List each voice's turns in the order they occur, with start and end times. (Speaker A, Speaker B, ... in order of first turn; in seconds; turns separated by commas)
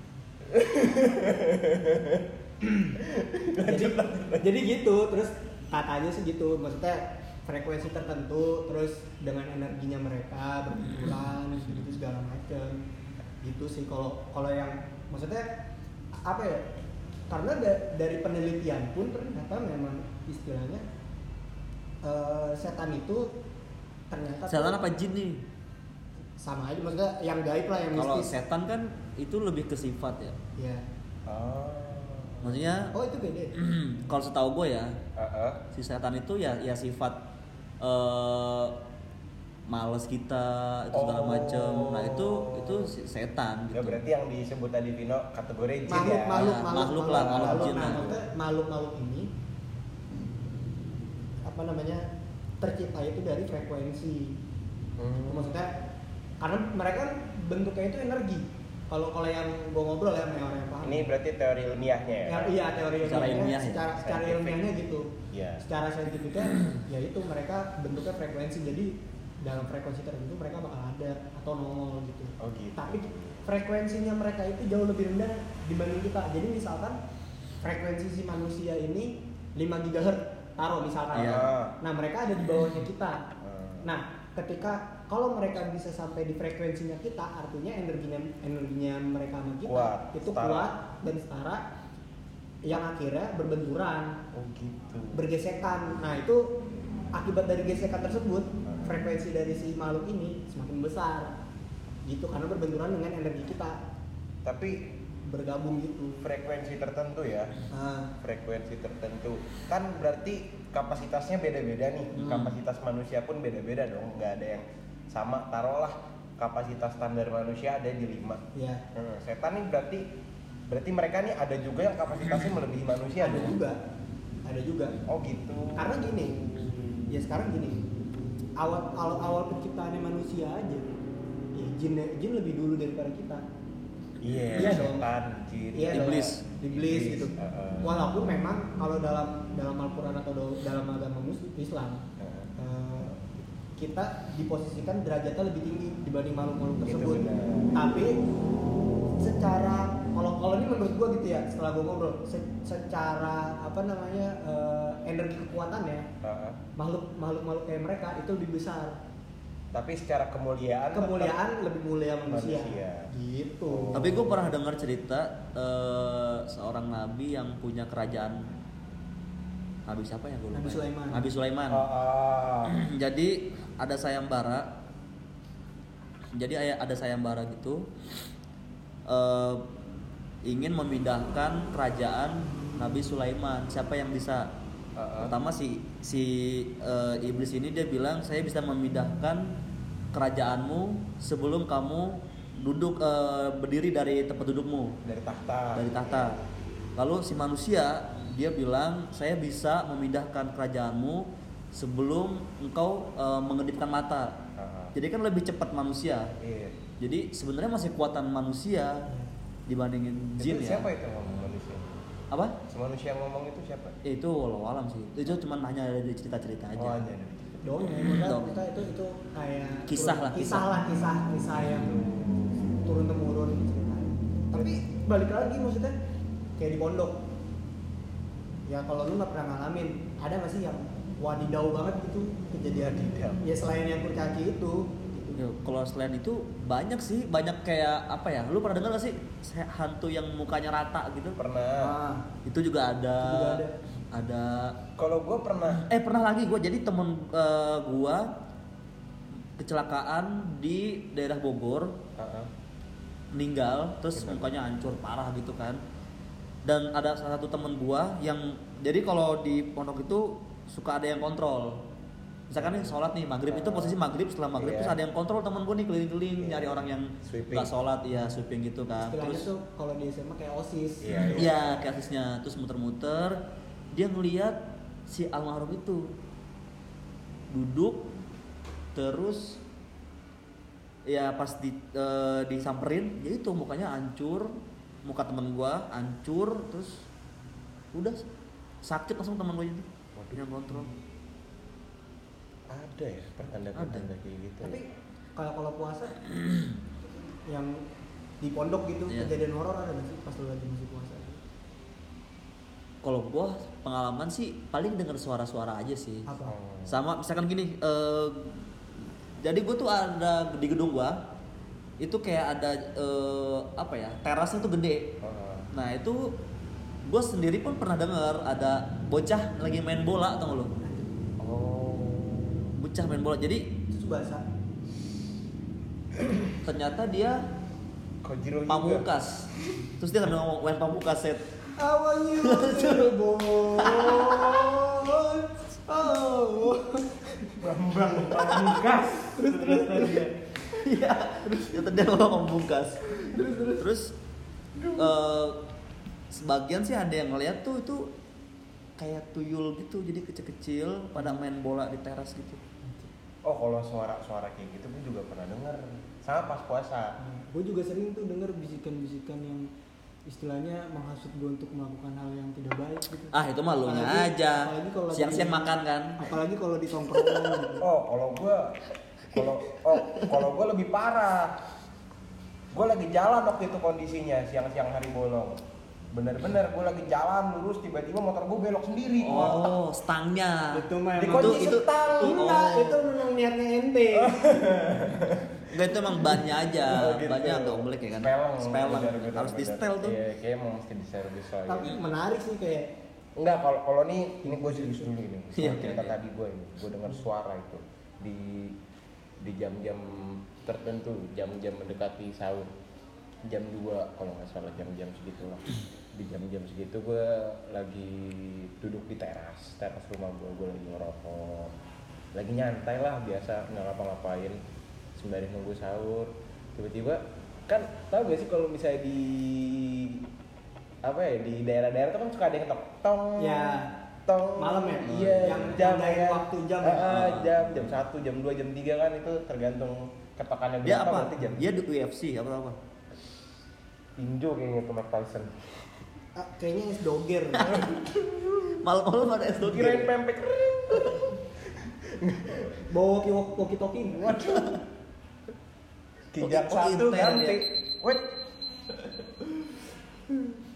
Speaker A: 0.5-4.5, Speaker B: 3.6-12.8, Speaker C: 10.9-11.3, Speaker B: 13.4-15.5, Speaker B: 16.2-16.7, Speaker B: 17.3-20.9, Speaker B: 22.0-23.3, Speaker B: 24.1-24.8, Speaker C: 24.5-25.4, Speaker B: 26.4-28.3, Speaker C: 27.9-30.4, Speaker B: 30.6-30.8, Speaker A: 31.3-32.8, Speaker C: 32.4-32.9, Speaker B: 32.9-33.6, Speaker C: 33.6-35.0, Speaker A: 35.2-35.6, Speaker C: 35.7-37.2, Speaker C: 37.8-38.8, Speaker C: 39.7-44.0, Speaker A: 40.9-42.9, Speaker A: 43.7-46.6, Speaker B: 45.9-49.3, Speaker C: 46.4-48.1, Speaker A: 47.1-48.2, Speaker B: 51.5-52.1, Speaker B: 52.6-54.4, Speaker A: 55.0-55.6, Speaker B: 55.3-55.7, Speaker B: 56.4-61.1, Speaker A: 60.8-63.4, Speaker B: 62.3-77.0, Speaker C: 63.0-63.9, Speaker A: 64.0-64.7, Speaker A: 65.3-65.6, Speaker A: 72.4-73.5, Speaker B: 77.6-83.3, Speaker C: 81.2-81.5, Speaker A: 81.2-81.7, Speaker A: 83.4-83.9, Speaker B: 83.8-91.6, Speaker A: 89.7-90.7, Speaker B: 92.6-94.2, Speaker A: 94.3-95.3, Speaker B: 95.1-96.5, Speaker B: 97.1-101.3, Speaker A: 98.7-99.0, Speaker B: 102.1-103.8, Speaker A: 104.4-104.9, Speaker B: 105.2-106.3, Speaker A: 106.2-107.5, Speaker B: 107.7-108.1, Speaker A: 108.2-118.4, Speaker B: 112.2-112.5, Speaker B: 118.5-118.8, Speaker A: 118.9-120.1, Speaker A: 120.7-123.6, Speaker B: 123.2-123.8, Speaker B: 124.5-125.0, Speaker A: 125.1-127.1, Speaker B: 125.8-126.4, Speaker B: 127.1-127.8, Speaker B: 128.6-130.9, Speaker B: 131.6-133.4, Speaker A: 134.2-138.2, Speaker B: 134.5-135.1, Speaker B: 135.7-142.0, Speaker C: 135.9-136.4, Speaker A: 142.2-142.5, Speaker B: 142.6-143.2, Speaker B: 143.8-148.2, Speaker A: 146.8-148.0, Speaker B: 149.2-156.1, Speaker A: 156.2-156.6, Speaker B: 156.8-159.0, Speaker A: 159.7-161.4, Speaker B: 160.9-164.4, Speaker A: 162.3-163.1, Speaker A: 163.7-164.4, Speaker C: 163.9-168.5, Speaker C: 169.9-171.9, Speaker B: 170.5-171.3, Speaker A: 171.7-172.8, Speaker C: 172.7-174.7, Speaker C: 176.3-177.9, Speaker C: 179.1-179.6, Speaker C: 180.4-184.5, Speaker A: 185.0-185.3, Speaker C: 185.2-189.6, Speaker C: 190.1-195.0, Speaker A: 195.0-196.4, Speaker C: 195.8-196.4, Speaker C: 197.0-204.4, Speaker A: 204.6-204.9, Speaker C: 204.9-206.3, Speaker A: 206.4-206.8, Speaker C: 207.0-209.1, Speaker B: 209.1-209.3, Speaker C: 209.7-210.9, Speaker A: 210.4-212.0, Speaker C: 212.3-212.6, Speaker A: 212.7-214.0, Speaker C: 214.0-217.1, Speaker A: 216.8-217.8, Speaker B: 217.6-222.0, Speaker C: 217.8-218.6, Speaker C: 219.9-220.7, Speaker A: 221.7-223.0, Speaker B: 222.8-225.9, Speaker B: 226.6-227.2, Speaker B: 228.7-235.4, Speaker A: 232.8-233.4, Speaker C: 235.4-241.4, Speaker A: 241.4-241.9, Speaker B: 241.8-242.3, Speaker C: 242.5-244.8, Speaker B: 243.2-243.8, Speaker A: 245.0-245.9, Speaker C: 245.7-248.3, Speaker C: 249.6-252.0, Speaker A: 252.2-252.5, Speaker C: 253.3-255.8, Speaker A: 254.1-254.5, Speaker C: 256.6-261.9, Speaker C: 262.5-269.5, Speaker A: 262.6-262.9, Speaker A: 263.5-264.0, Speaker A: 264.6-265.0, Speaker A: 266.4-267.7, Speaker B: 269.0-271.5, Speaker A: 271.0-271.6, Speaker C: 271.3-273.4, Speaker C: 273.9-276.1, Speaker C: 277.5-278.1, Speaker C: 278.9-279.6, Speaker C: 281.1-284.5, Speaker C: 285.1-287.1, Speaker C: 287.9-288.2, Speaker C: 288.8-290.9, Speaker A: 290.2-290.4, Speaker A: 292.7-294.8, Speaker C: 293.8-294.1, Speaker B: 294.6-296.2, Speaker C: 296.3-296.8, Speaker B: 297.1-297.8, Speaker B: 298.4-301.4, Speaker C: 303.0-306.3, Speaker B: 306.3-306.6, Speaker A: 306.5-307.0, Speaker C: 306.9-308.7, Speaker C: 309.4-311.2, Speaker C: 312.0-315.2, Speaker A: 315.2-315.7, Speaker C: 315.7-316.3, Speaker C: 317.1-320.7, Speaker A: 321.4-322.8, Speaker C: 322.8-323.7, Speaker B: 323.9-324.4, Speaker C: 326.4-327.4, Speaker A: 328.2-329.1, Speaker C: 328.7-331.4, Speaker B: 331.8-337.6, Speaker C: 332.4-334.8, Speaker A: 337.6-340.3, Speaker C: 338.4-338.8, Speaker B: 339.3-340.3, Speaker C: 340.7-344.1, Speaker B: 341.4-342.1, Speaker B: 343.1-343.9, Speaker A: 344.8-345.1, Speaker C: 345.0-345.6, Speaker C: 346.3-348.1, Speaker C: 349.0-352.6, Speaker A: 353.4-357.2, Speaker B: 357.2-359.7, Speaker B: 360.3-367.9, Speaker C: 363.3-366.2, Speaker A: 367.8-371.6, Speaker A: 372.7-375.6, Speaker A: 376.1-379.8, Speaker C: 379.2-383.1, Speaker B: 380.7-384.5, Speaker A: 381.2-382.4, Speaker A: 384.1-392.0, Speaker C: 385.7-390.2, Speaker B: 391.7-392.9, Speaker A: 393.4-398.8, Speaker B: 394.4-395.1, Speaker C: 395.6-396.2, Speaker A: 399.4-402.7, Speaker A: 403.5-411.7, Speaker A: 412.3-414.6, Speaker A: 415.2-420.3, Speaker A: 421.0-431.7, Speaker B: 423.4-423.9, Speaker B: 424.6-427.4, Speaker C: 427.1-427.8, Speaker C: 430.8-432.8, Speaker A: 434.2-435.7, Speaker B: 436.4-437.8, Speaker A: 437.7-438.8, Speaker C: 438.7-440.1, Speaker A: 439.6-442.8, Speaker C: 440.9-441.2, Speaker B: 442.9-444.5, Speaker A: 444.2-444.8, Speaker A: 446.3-448.3, Speaker C: 446.4-447.6, Speaker A: 448.9-450.6